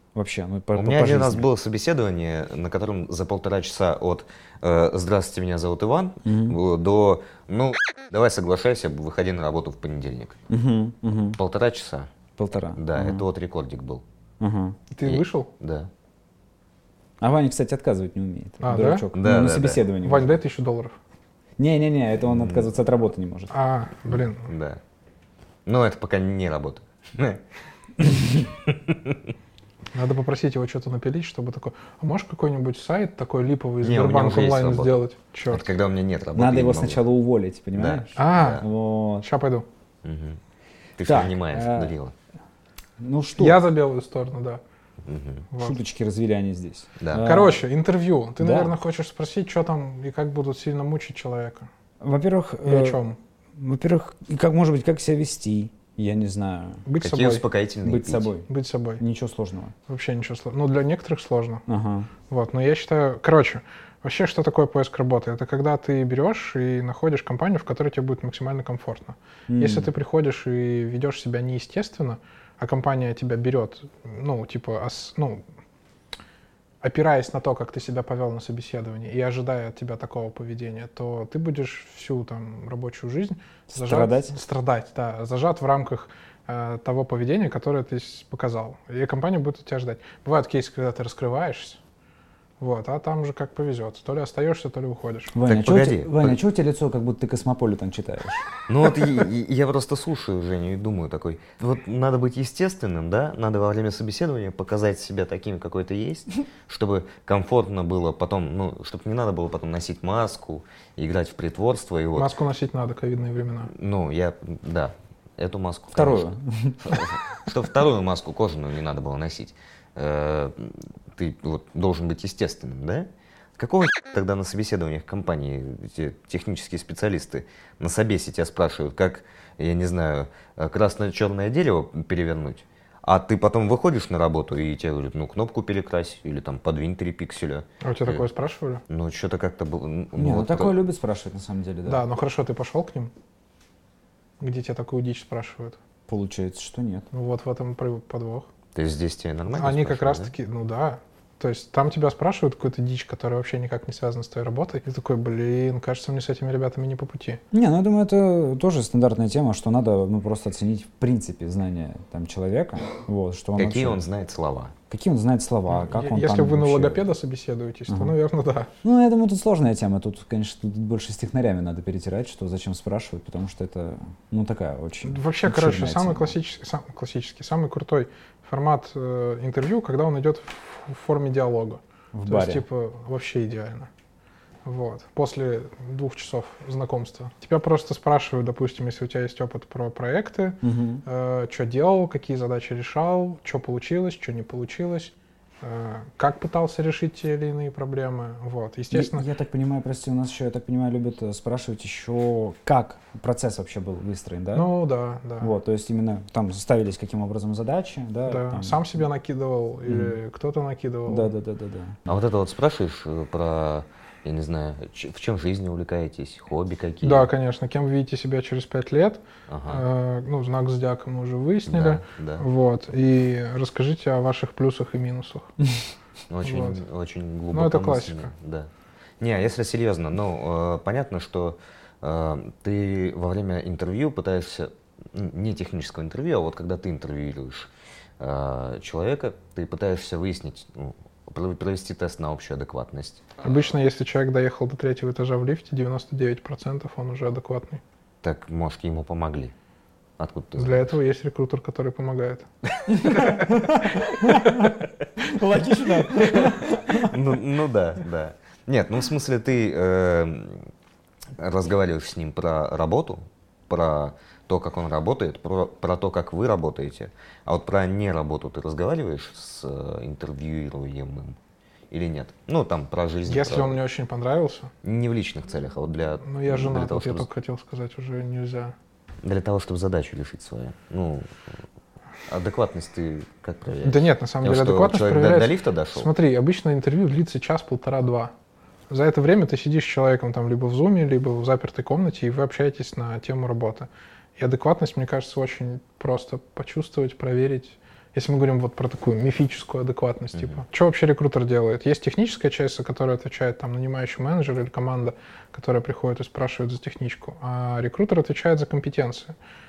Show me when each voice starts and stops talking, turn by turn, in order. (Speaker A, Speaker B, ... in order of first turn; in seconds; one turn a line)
Speaker A: 0.1-1.5
Speaker B: 0.7-10.4
Speaker A: 6.2-6.6
Speaker A: 10.5-11.4
Speaker B: 11.4-12.1
Speaker A: 12.4-13.2
Speaker B: 12.8-14.0
Speaker A: 14.4-14.8
Speaker C: 14.9-15.5
Speaker B: 15.1-15.9
Speaker A: 17.2-20.4
Speaker C: 18.6-19.1
Speaker B: 19.1-19.8
Speaker C: 20.0-21.0
Speaker A: 21.6-23.5
Speaker B: 22.3-22.7
Speaker C: 23.5-24.5
Speaker B: 24.1-24.8
Speaker B: 25.7-27.4
Speaker B: 28.0-29.2
Speaker C: 29.9-35.7
Speaker B: 33.8-37.0
Speaker A: 36.4-39.3
Speaker B: 37.7-38.6
Speaker C: 38.2-38.7
Speaker C: 39.2-39.7
Speaker B: 40.0-40.4
Speaker B: 41.0-42.1
Speaker A: 41.1-41.9
Speaker A: 43.0-43.6
Speaker C: 43.4-44.6
Speaker B: 45.0-45.5
Speaker C: 45.5-45.8
Speaker A: 45.6-47.6
Speaker B: 47.0-47.3
Speaker C: 47.2-51.7
Speaker A: 48.4-48.8
Speaker A: 52.0-53.0
Speaker C: 52.6-53.2
Speaker A: 53.6-56.9
Speaker C: 56.9-57.5
Speaker B: 57.0-58.3
Speaker A: 57.8-58.5
Speaker C: 58.5-59.0
Speaker A: 59.0-59.7
Speaker C: 59.9-61.6
Speaker A: 61.7-62.1
Speaker C: 62.3-75.4
Speaker A: 69.5-69.9
Speaker C: 76.8-91.8
Speaker A: 83.7-84.4
Speaker C: 92.6-95.3
Speaker A: 95.3-98.5
Speaker B: 95.5-96.4
Speaker B: 98.7-112.3
Speaker C: 112.2-113.7
Speaker B: 113.7-138.2
Speaker A: 116.0-117.0
Speaker C: 137.8-138.8
Speaker B: 138.9-140.8
Speaker A: 140.2-142.1
Speaker C: 141.9-143.1
Speaker C: 144.4-145.8
Speaker A: 146.1-147.1
Speaker C: 147.1-148.5
Speaker B: 148.8-150.3
Speaker C: 149.5-157.4
Speaker A: 157.5-164.0
Speaker B: 163.6-164.7
Speaker A: 164.9-167.0
Speaker C: 165.7-168.7
Speaker A: 167.9-168.2
Speaker A: 168.8-176.3
Speaker C: 175.0-183.9
Speaker A: 182.1-182.6
Speaker C: 184.7-199.3
Speaker A: 190.6-191.0
Speaker A: 198.9-204.7
Speaker C: 204.5-205.5
Speaker A: 205.4-208.9
Speaker C: 208.3-211.3
Speaker A: 209.9-210.2
Speaker A: 211.1-212.0
Speaker B: 212.1-217.3
Speaker C: 217.0-225.5
Speaker B: 219.5-219.8
Speaker B: 221.7-222.4
Speaker B: 226.3-237.7
Speaker C: 226.4-226.8
Speaker C: 227.5-228.3
Speaker B: 238.2-243.2
Speaker C: 243.4-247.8
Speaker B: 248.2-249.5
Speaker B: 250.2-250.9
Speaker C: 250.6-254.7
Speaker A: 252.9-257.1
Speaker B: 256.2-260.7
Speaker B: 261.4-271.4
Speaker B: 271.9-273.8
Speaker C: 273.3-274.7
Speaker B: 274.8-277.3
Speaker C: 276.2-278.7
Speaker B: 279.2-281.3
Speaker B: 282.3-286.1
Speaker C: 283.8-288.3
Speaker C: 288.9-309.3
Speaker B: 300.4-300.6